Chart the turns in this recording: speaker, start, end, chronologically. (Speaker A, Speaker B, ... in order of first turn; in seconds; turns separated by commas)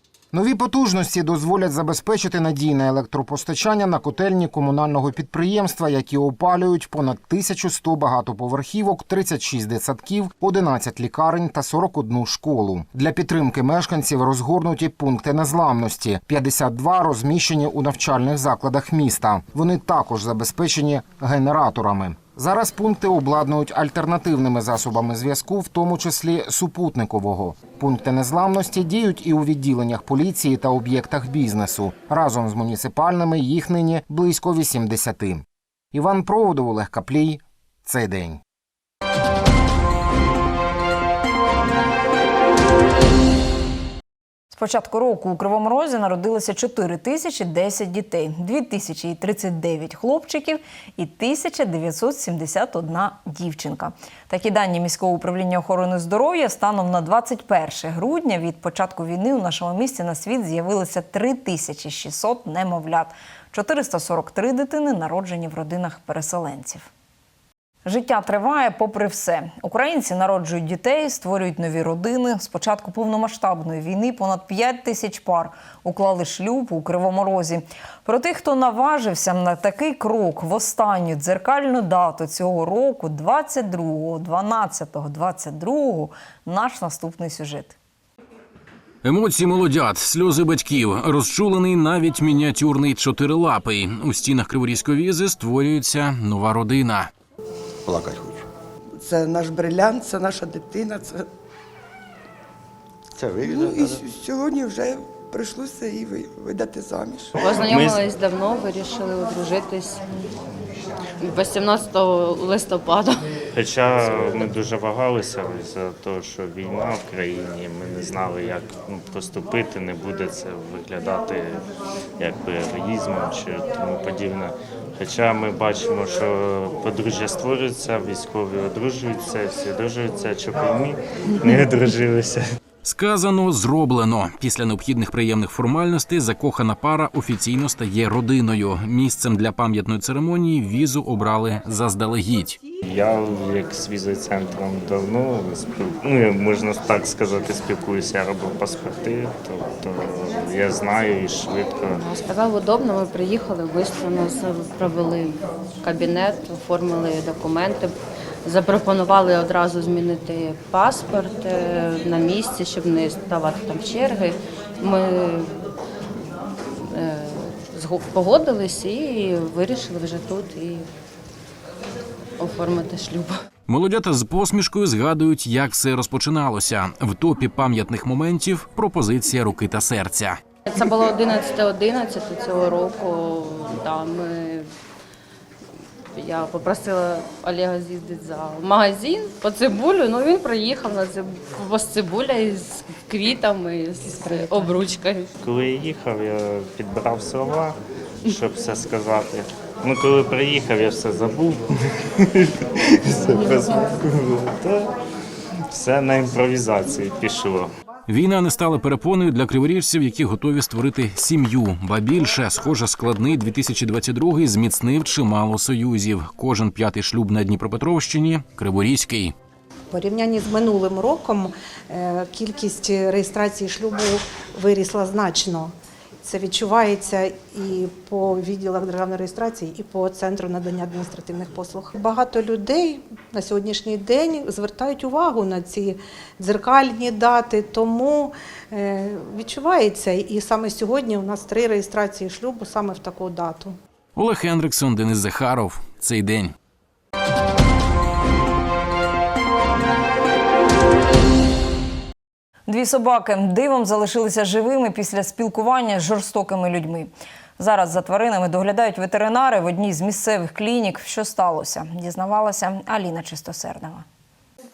Speaker A: 0.3-38.4, Speaker B: 44.5-66.9, Speaker B: 67.8-87.8, Speaker C: 89.0-97.1, Speaker D: 97.9-98.4, Speaker D: 99.0-101.3, Speaker D: 103.2-107.4, Speaker E: 107.3-110.0, Speaker E: 111.2-113.3, Speaker F: 113.5-121.6, Speaker F: 122.2-132.4, Speaker C: 132.8-142.6, Speaker F: 142.8-152.0, Speaker E: 151.9-157.9, Speaker E: 158.4-165.5, Speaker E: 166.8-170.9, Speaker E: 172.4-173.3, Speaker C: 173.7-180.4, Speaker E: 180.7-184.7, Speaker E: 186.1-195.3, Speaker F: 195.4-197.7, Speaker F: 198.3-201.6, Speaker F: 203.2-204.8, Speaker F: 205.7-207.7, Speaker C: 208.1-219.3, Speaker G: 219.9-243.8, Speaker C: 244.2-246.5, Speaker B: 252.7-264.0